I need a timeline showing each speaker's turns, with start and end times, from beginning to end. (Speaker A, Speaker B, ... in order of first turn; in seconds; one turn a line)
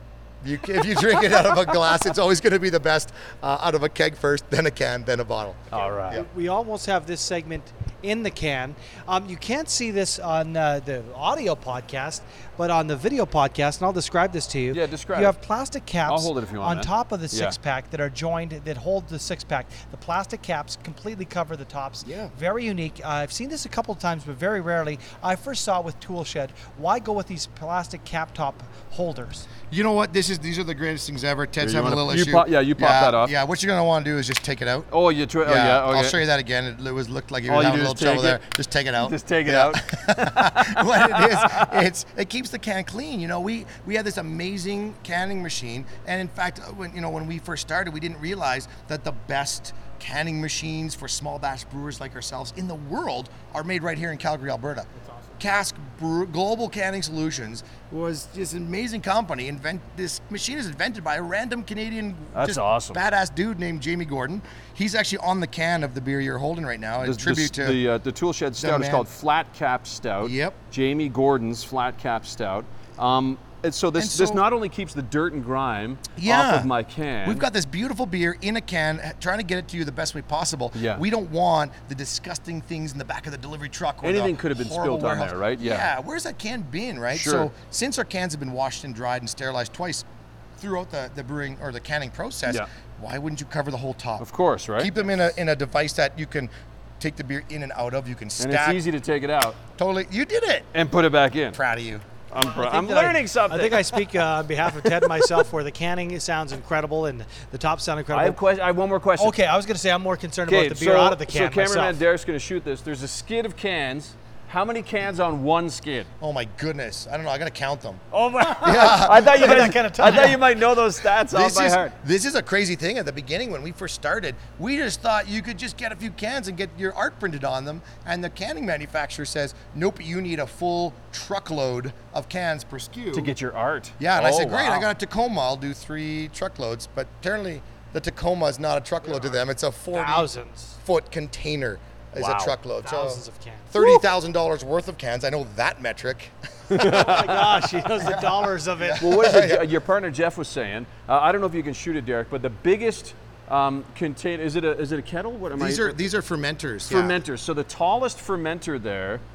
Speaker A: 0.4-6.2
Speaker B: 5.7-6.2
Speaker C: 6.0-29.5
Speaker B: 14.7-15.4
Speaker B: 16.1-17.6
Speaker A: 22.0-22.3
Speaker A: 29.7-34.9
Speaker B: 31.6-33.3
Speaker B: 34.9-36.2
Speaker A: 35.4-67.8
Speaker B: 37.5-38.4
Speaker B: 39.0-41.7
Speaker B: 62.3-63.0
Speaker B: 67.0-77.5
Speaker A: 68.6-69.1
Speaker A: 70.2-70.6
Speaker A: 73.9-74.4
Speaker A: 76.2-76.7
Speaker A: 77.2-90.0
Speaker B: 80.7-81.0
Speaker B: 84.0-85.9
Speaker B: 87.1-87.5
Speaker A: 90.6-98.9
Speaker B: 94.2-94.9
Speaker B: 98.4-99.6
Speaker A: 99.8-100.7
Speaker B: 100.7-101.6
Speaker A: 101.5-102.0
Speaker B: 102.3-104.2
Speaker C: 102.3-108.4
Speaker B: 104.8-105.4
Speaker B: 108.1-109.3
Speaker C: 109.2-112.0
Speaker B: 110.5-116.1
Speaker A: 116.2-118.0
Speaker C: 118.1-120.4
Speaker B: 118.4-121.9
Speaker A: 118.6-120.1
Speaker A: 121.2-133.3
Speaker B: 133.1-134.9
Speaker A: 134.0-140.3
Speaker C: 139.9-140.8
Speaker A: 140.8-146.3
Speaker B: 142.2-142.6
Speaker C: 142.8-143.9
Speaker B: 146.7-147.6
Speaker C: 146.7-149.1
Speaker A: 148.0-149.7
Speaker B: 149.0-156.0
Speaker A: 155.5-157.2
Speaker B: 156.8-159.2